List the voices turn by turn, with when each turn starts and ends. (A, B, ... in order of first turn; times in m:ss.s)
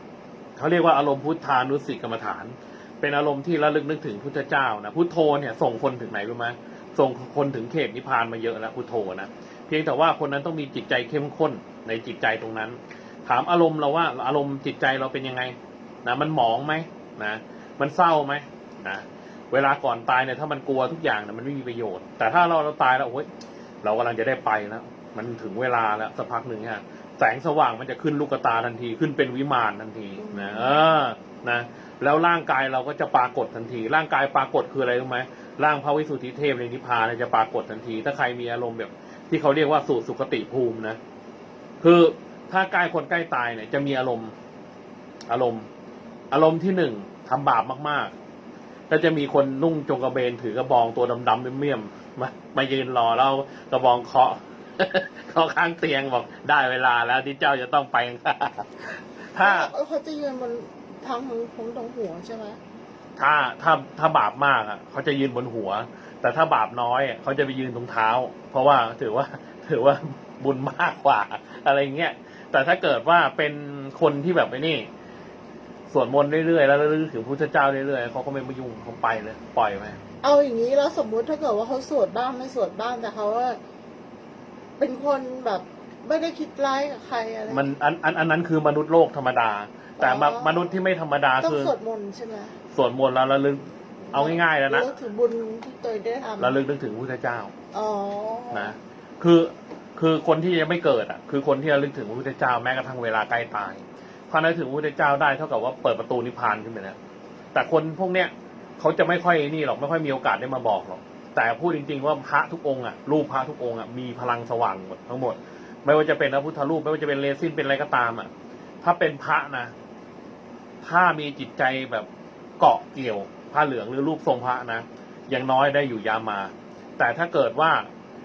0:00.6-0:23.3 A
0:23.8-0:41.0 A
0:30.2-0:30.8 B
0:41.8-0:44.3 A
0:45.3-0:45.7 A
0:46.3-0:48.1 A
0:48.9-0:59.7 A
0:59.4-1:02.6 B
1:03.2-1:14.9 A
1:15.9-1:20.0 A
1:20.2-1:23.6 B
1:24.8-1:27.6 B
1:27.5-1:31.7 A
1:30.0-1:30.7 B
1:31.4-1:32.5 B
1:32.7-1:34.9 A
1:34.1-1:36.5 B
1:36.4-1:37.5 A
1:37.7-1:38.7 B
1:38.5-1:47.0 A
1:47.5-1:58.3 A
1:58.8-1:59.7 A
2:00.8-2:02.1 A
2:02.6-2:07.9 A